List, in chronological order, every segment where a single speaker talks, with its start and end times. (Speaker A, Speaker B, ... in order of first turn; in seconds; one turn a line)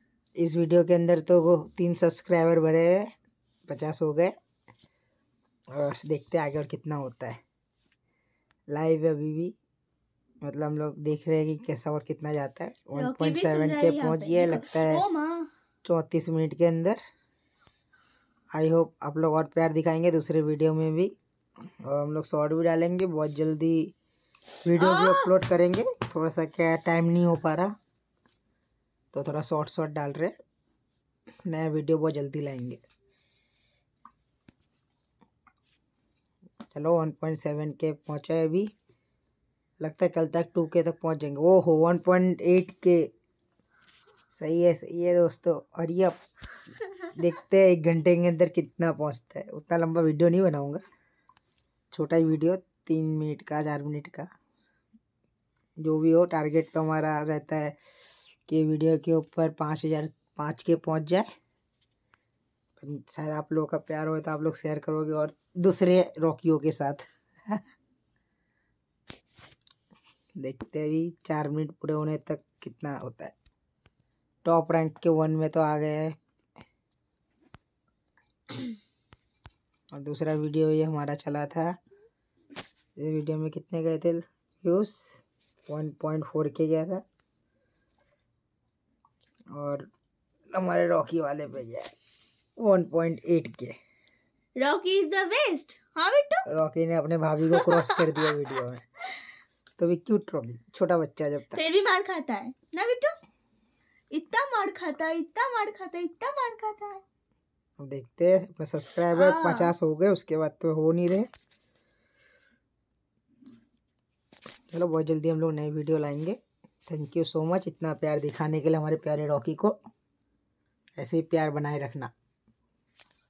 Speaker A: 0.4-3.1
Speaker A: 3.7-4.3
Speaker A: 5.7-7.4
Speaker A: 8.7-9.6
Speaker A: 10.4-15.0
Speaker B: 13.0-15.5
Speaker A: 15.8-17.0
Speaker A: 18.5-21.1
Speaker A: 21.8-23.9
Speaker A: 24.6-27.7
Speaker B: 24.8-25.3
Speaker A: 29.1-30.3
Speaker A: 31.5-32.8
Speaker A: 36.7-38.7
Speaker A: 39.8-43.1
Speaker A: 44.3-46.2
Speaker A: 47.1-50.8
Speaker A: 51.9-54.3
Speaker A: 55.8-57.8
Speaker A: 58.5-61.3
Speaker A: 62.8-67.6
Speaker A: 70.4-73.3
Speaker A: 74.5-76.2
Speaker A: 79.9-81.8
Speaker A: 83.0-87.0
Speaker A: 89.5-89.9
Speaker A: 90.5-91.9
Speaker A: 92.6-93.8
Speaker B: 94.6-96.5
Speaker A: 96.5-98.8
Speaker B: 97.5-98.0
Speaker A: 99.8-101.6
Speaker B: 101.5-103.2
Speaker B: 104.1-107.0
Speaker A: 107.8-111.3
Speaker B: 109.1-109.7
Speaker A: 114.7-119.8
Speaker A: 121.0-122.1